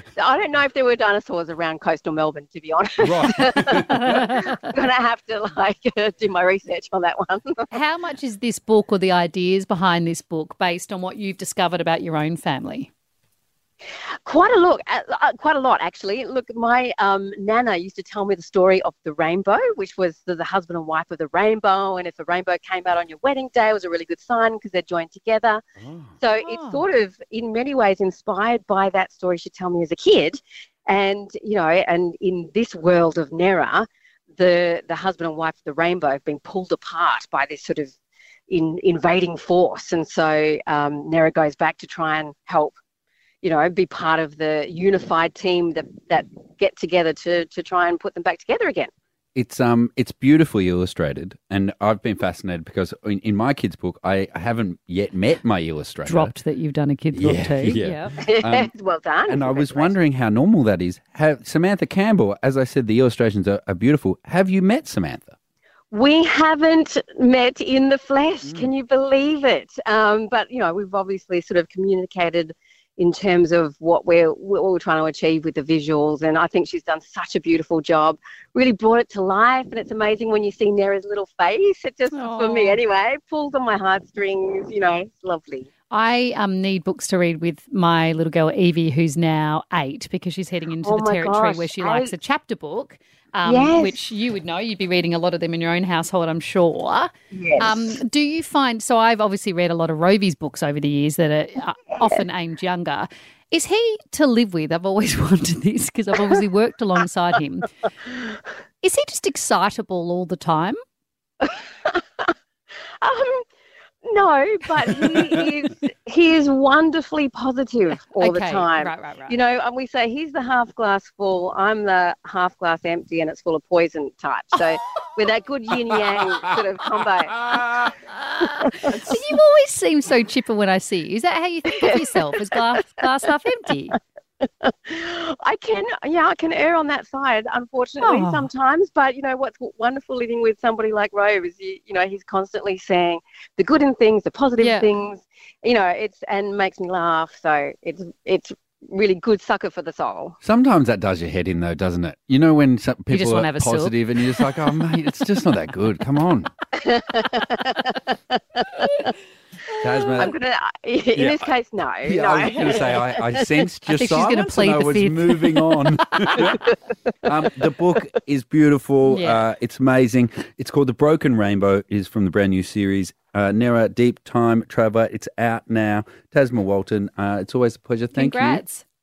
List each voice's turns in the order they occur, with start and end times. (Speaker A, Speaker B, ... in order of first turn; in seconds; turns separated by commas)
Speaker A: 0.1-7.7, Speaker B: 3.0-4.2, Speaker C: 3.8-4.6, Speaker C: 7.7-12.9, Speaker A: 14.2-25.6, Speaker B: 25.8-26.1, Speaker A: 26.2-37.9, Speaker C: 26.4-26.8, Speaker A: 38.5-42.8, Speaker A: 43.4-48.9, Speaker B: 49.4-56.3, Speaker C: 56.1-58.2, Speaker B: 57.1-58.7, Speaker A: 58.2-60.0, Speaker B: 59.3-65.4, Speaker A: 65.9-85.7, Speaker C: 82.1-82.8, Speaker C: 85.9-107.7, Speaker A: 90.8-92.1, Speaker A: 93.4-94.0, Speaker A: 97.3-98.0, Speaker C: 108.8-110.8, Speaker A: 111.4-112.3, Speaker A: 113.0-113.5, Speaker A: 114.0-127.5, Speaker C: 118.2-119.4, Speaker C: 128.2-133.9, Speaker A: 128.7-129.2, Speaker A: 131.7-132.8, Speaker A: 134.6-150.4, Speaker C: 138.0-138.5, Speaker C: 144.6-144.9, Speaker B: 150.4-156.5, Speaker C: 153.1-153.9, Speaker A: 156.8-159.1, Speaker B: 159.8-160.3, Speaker A: 160.2-163.6, Speaker B: 161.2-161.5, Speaker B: 162.1-166.6, Speaker C: 163.9-165.7, Speaker B: 167.2-178.6, Speaker C: 169.1-169.4, Speaker C: 178.1-178.8